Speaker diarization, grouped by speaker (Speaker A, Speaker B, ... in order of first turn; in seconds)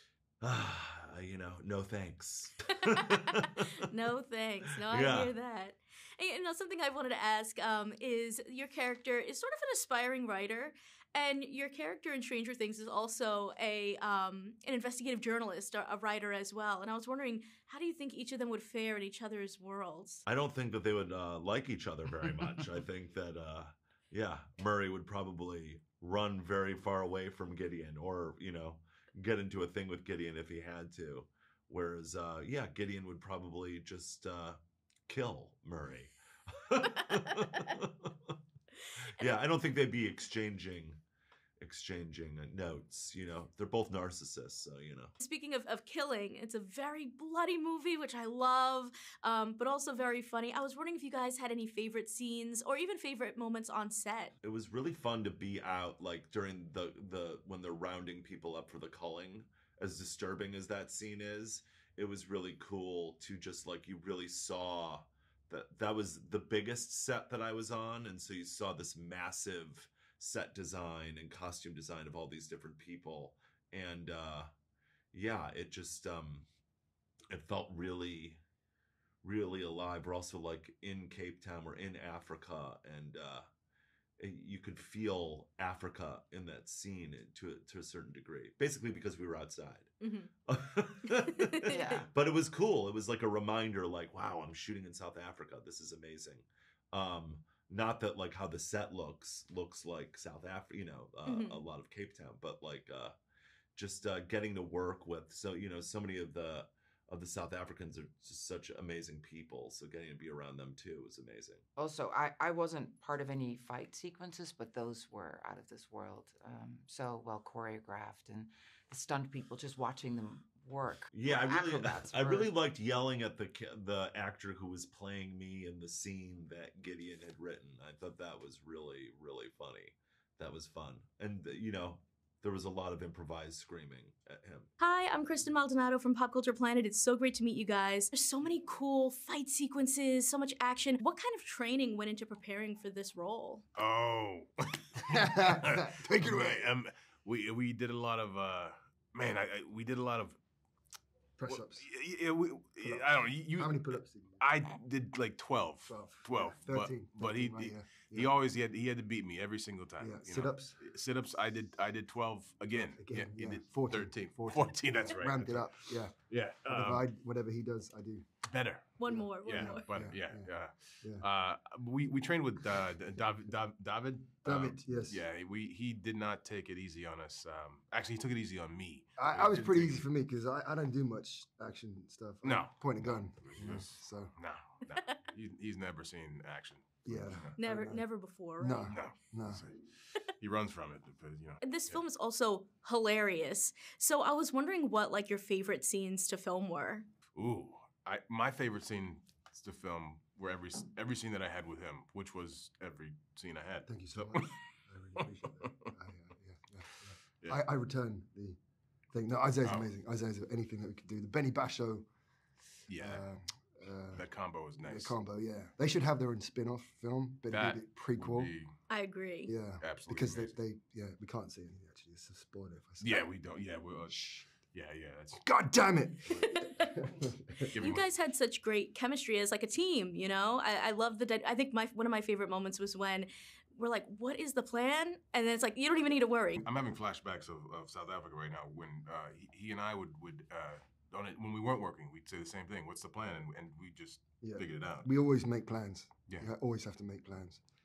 Speaker A: 0.4-3.8, 4.8-5.3, 20.3-38.3, 39.2-41.0, 41.6-45.1, 54.4-74.5, 75.1-76.5, 77.3-78.4, 79.2-83.5, 84.2-89.9, 90.5-103.2, 103.8-111.6, 121.1-134.7
Speaker B: 2.8-20.2, 45.2-54.3, 90.0-90.3, 91.5-91.9, 101.2-101.6, 134.8-143.6, 169.0-169.8, 187.6-188.9, 191.6-197.1, 218.9-219.5, 226.4-226.9, 227.8-236.6
Speaker C: 91.7-92.1, 111.8-122.5
Speaker D: 143.8-150.4, 151.5-167.1, 168.5-180.1, 182.4-187.5, 188.9-192.0, 197.3-204.8, 212.9-213.2, 214.1-215.2, 217.5-218.7, 219.8-220.6, 223.0-225.5, 227.7-228.1, 236.6-245.1
Speaker E: 145.1-146.7, 151.4-151.8, 152.8-154.4, 155.8-158.3, 160.0-160.8, 162.9-168.3, 169.0-171.2, 174.4-175.2, 179.2-184.3, 187.0-189.6, 203.8-208.6, 209.1-212.1, 213.0-218.5, 219.4-223.3, 225.4-227.7, 244.4-247.6